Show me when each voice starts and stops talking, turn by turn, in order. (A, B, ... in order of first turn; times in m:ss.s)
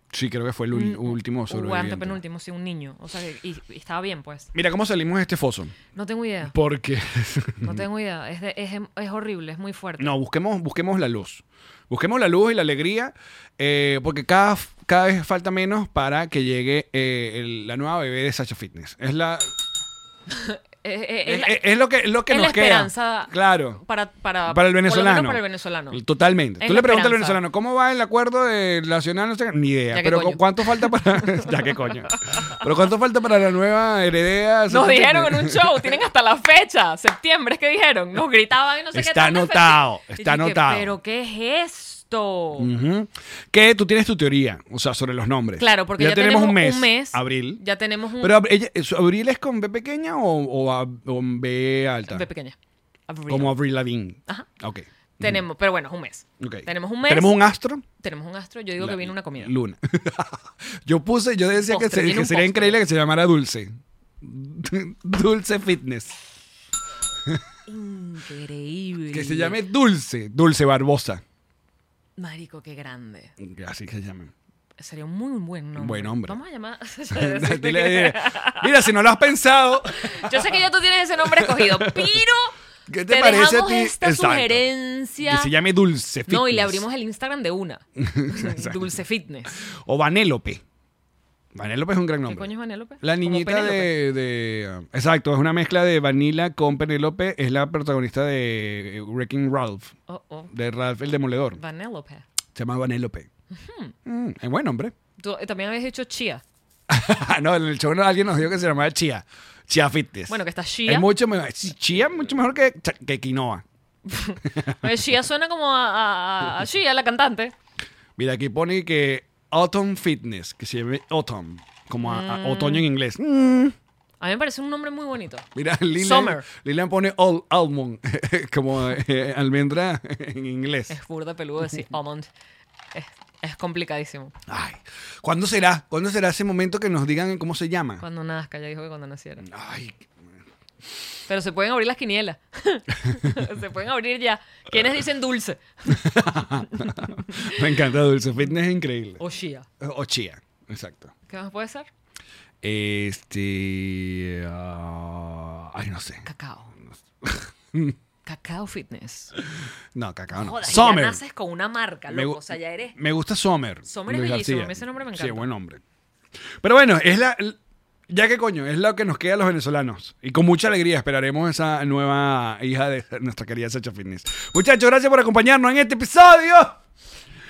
0:00.1-0:02.2 A
0:00.7-0:04.5 B
0:04.5-0:05.8 A
0:06.0-0:06.5 B
0:06.4-0:07.8 A
0:07.6-0:10.2 B
0:10.0-0:19.5 A
0:20.3-0:21.6 B
0:21.3-0:23.8 A
0:22.3-0:26.0 B
0:24.5-0:36.0 A
0:26.6-0:27.4 B
0:29.9-0:32.7 B
0:34.7-0:42.7 B
0:38.9-0:41.0 A
0:42.6-0:47.6 A
0:45.6-0:48.4 B
0:48.2-0:52.3 A
0:52.1-0:52.6 B
0:53.1-0:53.6 B
0:53.3-0:55.4 A
0:55.2-0:57.4 B
0:56.4-0:57.8 A
0:58.0-0:59.5 B
0:58.8-1:06.2 A
1:01.6-1:02.8 B
1:07.7-1:09.6 B
1:09.1-1:11.2 A
1:12.2-1:13.3 B
1:13.4-1:14.3 A
1:14.8-1:18.9 B
1:15.8-1:16.4 A
1:17.1-1:20.6 A
1:19.9-1:22.5 B
1:21.2-1:22.2 A
1:22.9-1:24.6 A
1:23.1-1:25.5 B
1:25.2-1:26.8 A
1:26.3-1:29.6 B
1:28.0-1:29.0 A
1:29.9-1:30.6 A
1:31.6-1:39.9 A
1:32.3-1:34.0 B
1:40.1-1:40.5 B
1:40.5-1:41.6 A
1:41.6-1:42.2 B
1:42.6-1:43.3 A
1:43.5-1:44.0 B
1:44.1-1:44.9 A
1:45.2-1:46.4 B
1:46.9-1:53.6 A
1:50.3-1:51.1 B
1:54.1-1:57.5 B
1:54.6-1:54.9 A
1:58.2-2:03.8 A
2:02.0-2:02.9 B
2:04.2-2:06.5 B
2:05.6-2:11.0 A
2:10.9-2:12.3 B
2:12.9-2:14.4 B
2:14.5-2:18.0 A
2:18.0-2:19.5 B
2:19.4-2:20.2 A
2:21.3-2:27.8 B
2:25.9-2:29.2 A
2:29.2-2:29.7 B
2:29.8-2:31.1 A
2:31.3-2:31.9 B
2:32.6-2:36.3 A
2:36.3-2:36.7 B
2:36.9-2:38.0 A
2:38.3-2:39.3 B
2:39.9-2:41.2 A
2:40.3-2:43.0 B
2:42.1-2:42.4 A
2:42.9-2:45.8 A
2:43.9-2:45.5 B
2:46.6-2:47.6 A
2:48.1-2:56.8 A